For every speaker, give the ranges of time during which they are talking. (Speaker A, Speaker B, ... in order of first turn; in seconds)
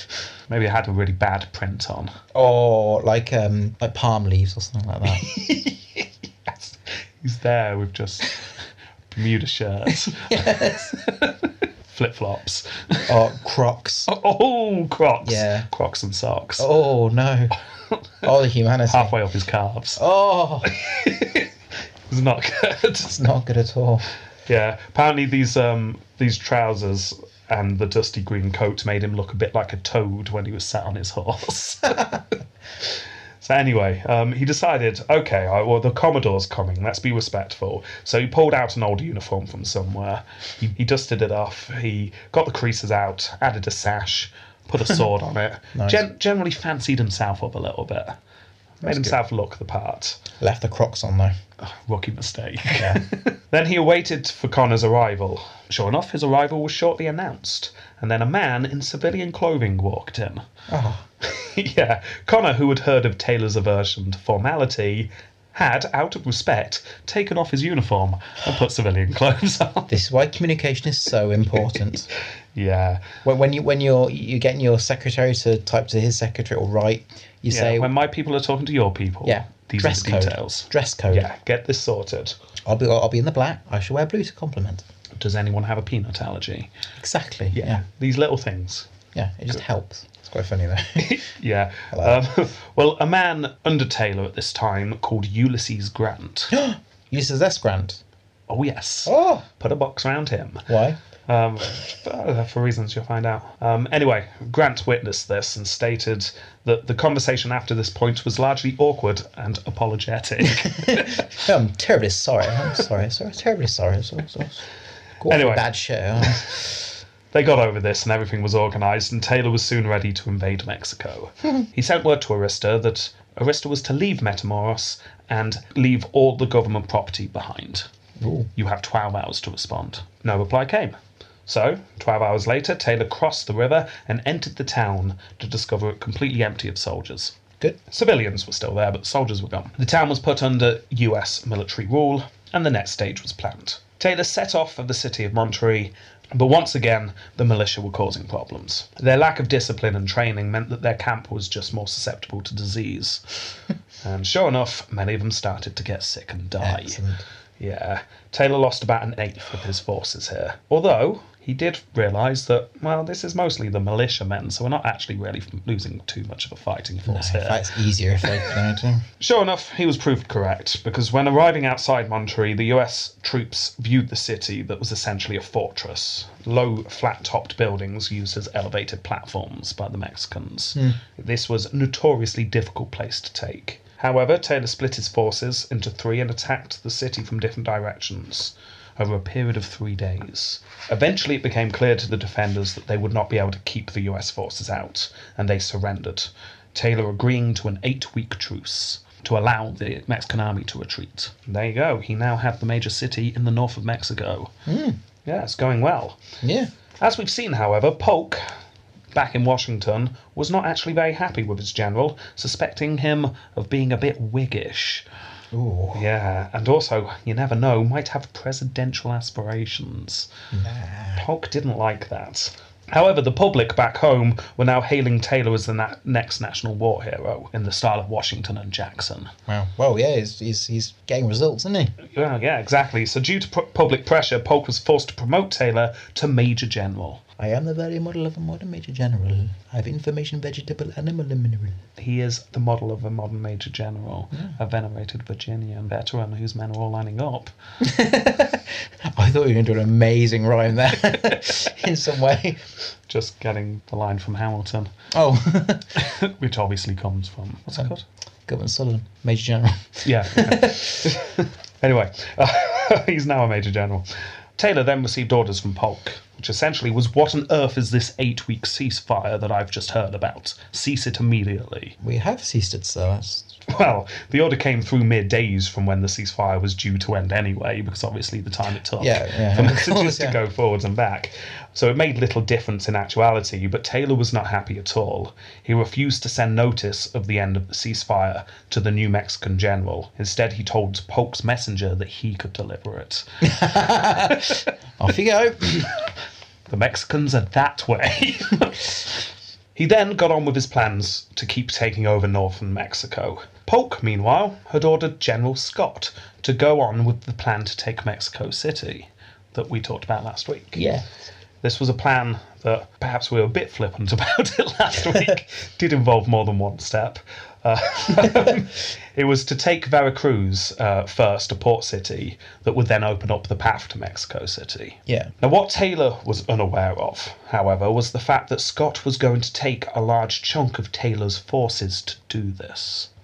Speaker A: 0.5-2.1, 5.1-13.1, 14.1-16.7, 18.9-20.0, 20.6-21.5, 22.1-23.1, 24.5-48.2, 48.8-50.2, 51.6-60.5, 61.2-69.9, 72.5-73.2, 77.5-82.3, 85.2-86.7, 87.5-88.9, 91.0-96.5, 98.5-100.7, 101.3-111.4, 115.3-115.7, 116.2-116.7, 117.3-127.9, 128.6-153.2, 154.0-157.0, 157.6-167.6, 168.2-168.5, 169.2-204.6, 205.2-206.2, 207.0-208.4, 209.1-215.1, 215.9-220.3, 221.2-229.3, 232.0-237.2, 242.0-247.5, 251.1-251.4, 253.1-254.9, 255.9-258.1, 260.0-264.1, 264.6-272.0, 273.7-293.2, 294.3-294.6, 296.7-299.1, 299.8-310.9, 311.6-333.1
Speaker B: 2.3-5.3, 9.9-11.0, 13.1-14.1, 15.2-15.7, 16.6-17.6, 18.2-19.1, 20.0-20.7, 23.1-24.1, 45.8-46.0, 48.8-49.2, 50.4-51.4, 52.8-53.0, 60.7-61.0, 69.9-72.1, 73.2-77.9, 79.2-81.3, 82.7-84.8, 87.0-87.8, 89.1-91.2, 91.9-92.2, 96.5-98.0, 99.1-99.5, 100.7-101.0, 110.6-114.7, 115.2-116.7, 128.2-128.5, 156.6-157.2, 167.1-169.1, 204.7-205.0, 206.4-206.7, 215.5-216.0, 220.5-221.3, 229.5-231.9, 237.4-241.8, 247.8-252.6, 255.1-255.9, 258.5-261.2, 272.0-273.6, 279.0-280.4, 293.4-296.0, 310.8-311.1, 325.1-325.3